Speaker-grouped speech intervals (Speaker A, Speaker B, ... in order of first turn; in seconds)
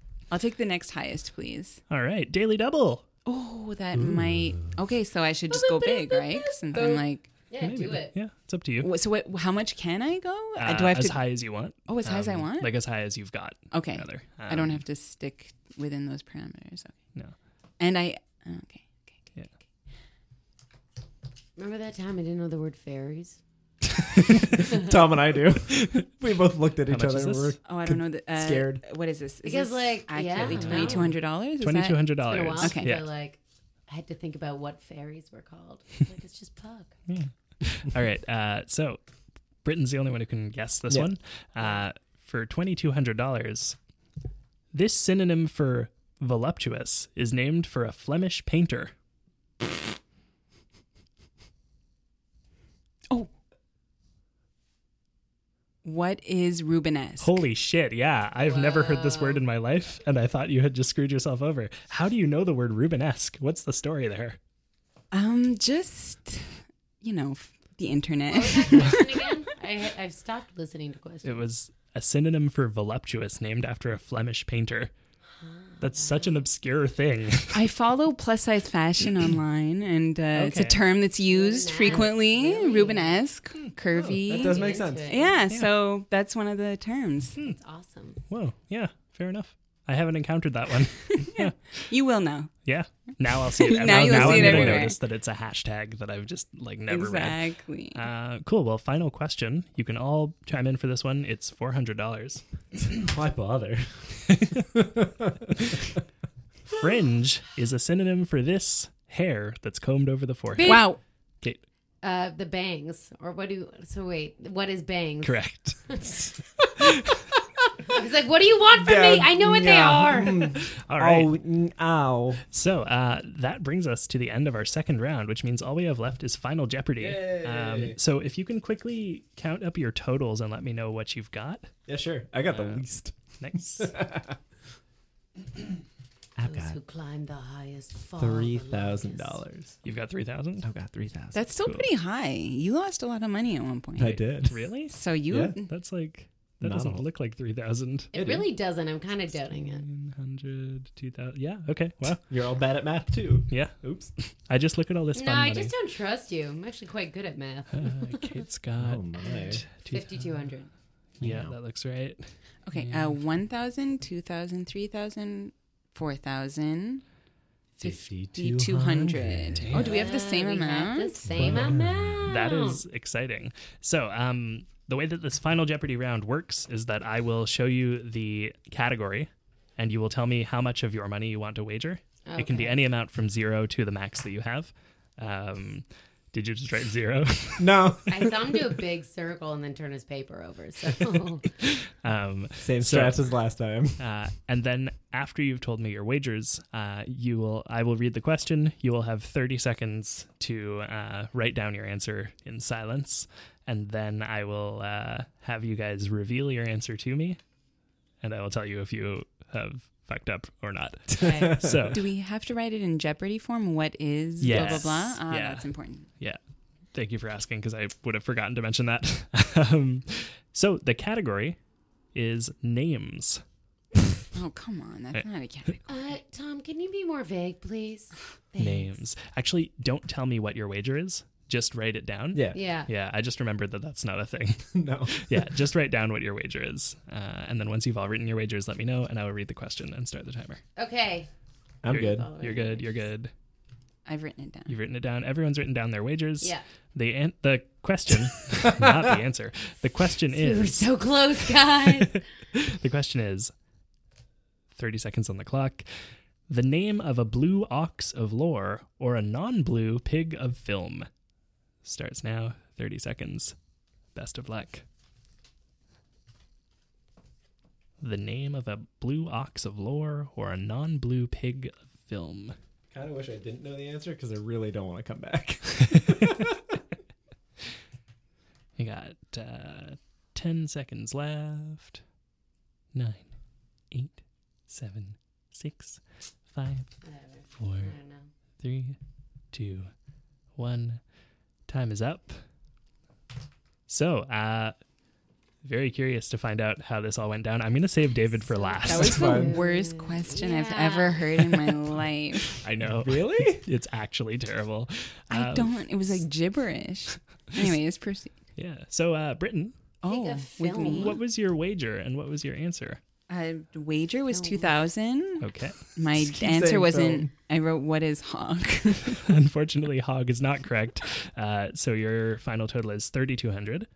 Speaker A: 0.3-1.8, 3.2-7.3, 8.8-11.3, 11.9-12.7, 13.7-17.0, 17.8-18.9, 27.6-32.9, 55.8-57.4, 65.1-69.2, 77.5-87.4, 91.2-92.5, 93.5-95.0, 96.9-98.0, 110.6-111.0, 141.3-144.2, 144.9-145.7, 162.7-167.0, 167.8-171.2, 211.9-216.1, 224.3-226.1, 244.1-244.7, 298.8-302.6, 305.3-308.3, 310.0-311.2, 313.3-319.3
Speaker B: 1.9-3.0, 7.6-8.9, 10.6-14.8, 26.9-27.6, 30.4-33.0, 37.1-39.0, 39.6-43.8, 44.7-48.9, 57.2-64.4, 71.2-74.9, 75.8-77.6, 80.3-80.9, 88.3-91.9, 92.6-102.4, 104.3-104.5, 106.7-111.6, 115.2-116.0, 116.8-117.1, 120.7-121.3, 122.5-131.7, 132.5-132.8, 133.4-133.9, 139.8-140.7, 141.6-141.9, 144.4-148.4, 149.5-152.2, 153.5-155.7, 157.7-160.2, 161.2-163.1, 169.6-169.9, 172.3-187.8, 191.6-193.2, 194.0-207.4, 208.2-212.0, 214.4-216.4, 216.9-221.6, 222.1-223.4, 228.6-240.6, 241.9-243.3, 244.7-251.1, 251.8-252.0, 252.5-253.5, 254.7-255.8, 256.5-261.1, 261.8-263.5, 264.1-264.8, 268.0-272.5, 278.8-282.0, 282.9-283.3, 283.9-286.9, 287.6-287.9, 288.6-289.0, 289.5-289.9, 290.6-291.0, 291.7-292.4, 293.9-294.7, 295.6-299.3, 302.6-306.2, 308.6-309.7, 310.8-313.0, 315.4-315.8, 319.2-323.9
Speaker C: 4.0-4.7, 24.6-28.8, 83.9-85.1, 93.8-94.9, 102.9-105.8, 118.7-122.4, 127.0-128.0, 131.9-133.2, 133.8-134.3, 136.3-136.8, 138.2-139.8, 140.6-141.4, 143.9-144.6, 145.3-145.6, 146.6-147.0, 148.1-148.4, 152.3-154.1, 158.8-159.6, 161.2-161.5, 167.8-169.8, 171.3-172.2, 187.6-188.6, 192.6-194.0, 211.3-211.9, 232.3-232.6, 234.7-235.4, 241.8-242.3, 272.9-276.8, 298.9-299.6, 303.0-303.6, 316.2-317.3
Speaker D: 5.5-8.1, 21.6-23.4, 29.4-31.1, 32.2-36.9, 58.4-59.4, 68.3-71.4, 75.4-76.3, 81.2-83.2, 84.3-85.3, 87.5-88.2, 110.5-110.9, 112.0-115.4, 115.9-116.1, 117.9-120.5, 136.4-139.4, 148.1-149.8, 155.2-158.1, 159.8-160.7, 169.7-172.8, 182.3-182.8, 188.1-191.5, 211.2-211.6, 225.9-229.0, 232.5-232.9, 240.8-241.3, 241.9-243.1, 250.3-252.2, 287.0-288.3, 298.5-301.3, 310.0-311.2, 314.3-314.7